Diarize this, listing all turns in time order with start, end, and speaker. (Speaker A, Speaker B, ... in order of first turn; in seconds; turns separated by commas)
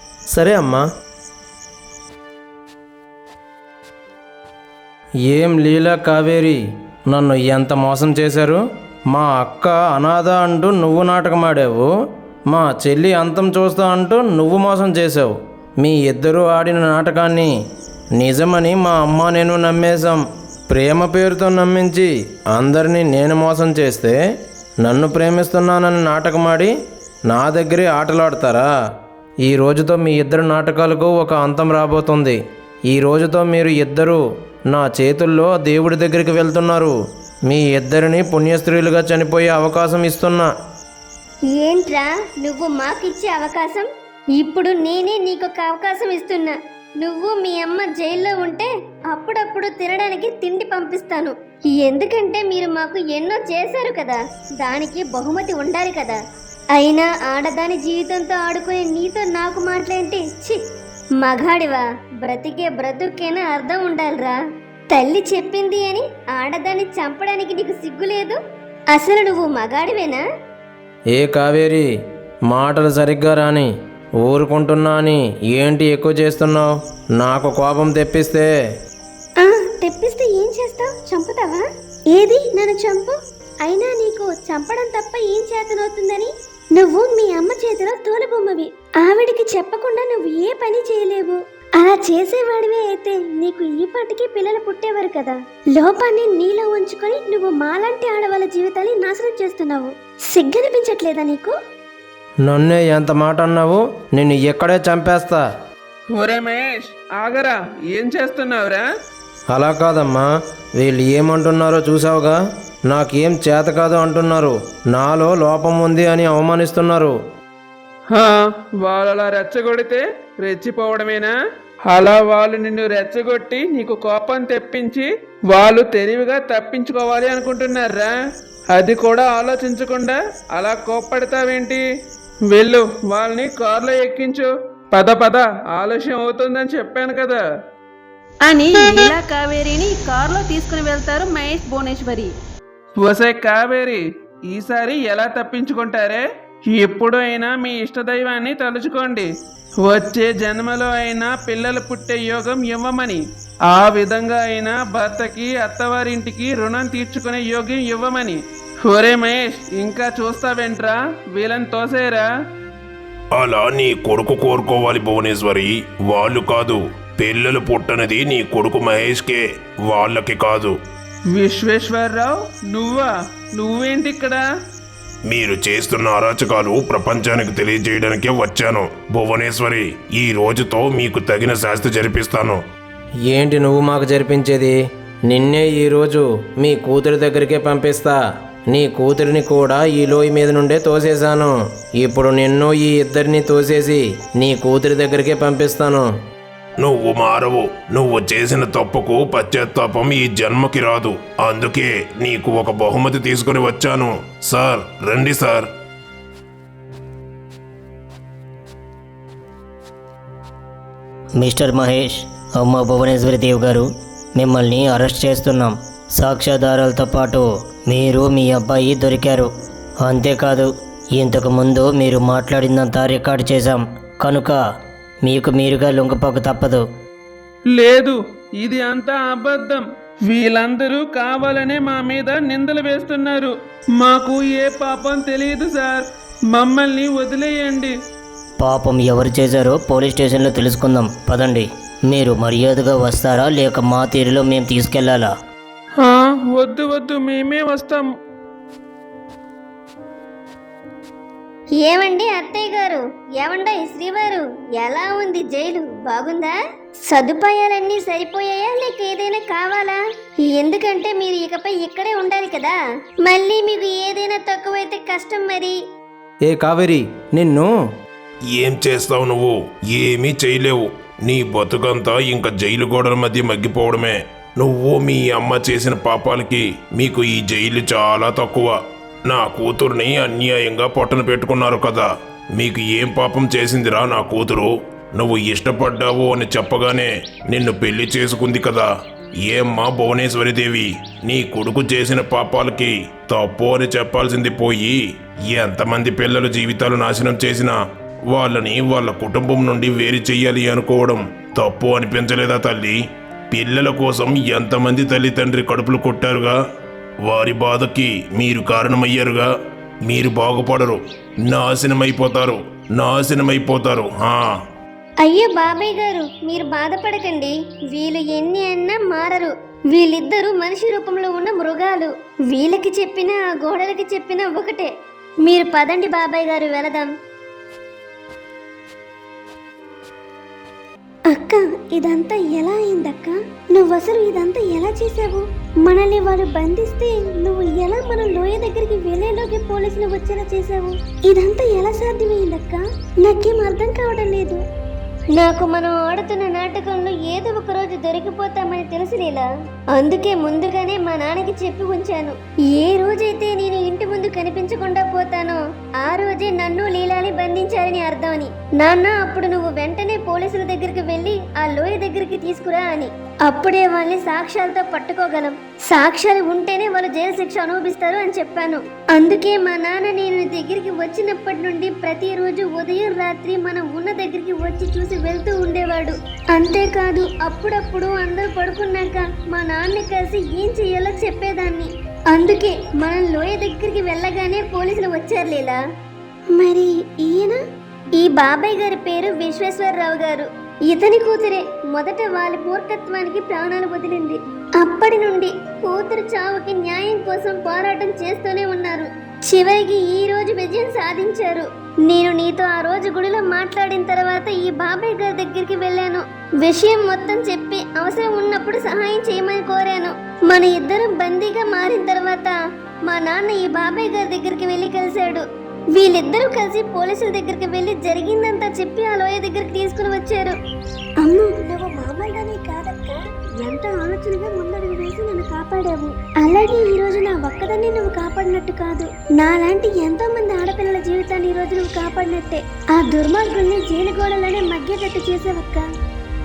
Speaker A: 0.3-0.8, Speaker A: 5.3-11.9, Speaker A: 12.5-17.5, Speaker A: 18.2-24.2, Speaker A: 24.8-26.7, Speaker A: 27.3-28.7, Speaker A: 29.5-37.0, Speaker A: 37.5-40.5, Speaker B: 41.5-56.2, Speaker B: 56.8-60.6, Speaker B: 61.2-64.4, Speaker B: 64.9-68.4, Speaker B: 68.9-70.2, Speaker A: 71.2-71.9, Speaker A: 72.5-73.7, Speaker A: 74.2-78.5, Speaker B: 79.4-101.5, Speaker A: 102.5-105.4, Speaker C: 106.2-108.9, Speaker A: 109.5-110.3, Speaker A: 110.8-112.4, Speaker A: 112.9-117.2, Speaker C: 118.1-121.3, Speaker C: 121.9-128.2, Speaker C: 128.7-131.8, Speaker C: 132.5-137.4, Speaker D: 138.4-142.3, Speaker B: 138.8-139.1, Speaker C: 143.0-149.3, Speaker C: 149.8-162.3, Speaker E: 163.3-170.8, Speaker C: 171.3-174.4, Speaker E: 175.3-182.6, Speaker A: 183.3-188.2, Speaker A: 188.7-196.1, Speaker E: 196.8-205.7, Speaker F: 211.4-219.5, Speaker F: 220.0-224.6, Speaker F: 225.2-226.8, Speaker C: 227.8-238.0, Speaker F: 238.6-245.3, Speaker C: 246.0-248.1, Speaker B: 251.8-256.5, Speaker B: 257.1-260.0, Speaker B: 260.5-265.8, Speaker A: 266.5-267.7, Speaker E: 268.5-288.9, Speaker E: 289.4-295.0, Speaker E: 295.5-297.8, Speaker E: 298.3-303.0, Speaker E: 303.5-306.6, Speaker E: 307.3-309.5, Speaker E: 310.1-314.6, Speaker B: 315.2-324.9, Speaker B: 325.4-327.1, Speaker B: 331.3-344.6, Speaker B: 345.4-385.8, Speaker B: 386.6-387.6, Speaker B: 388.2-420.6, Speaker B: 421.2-435.9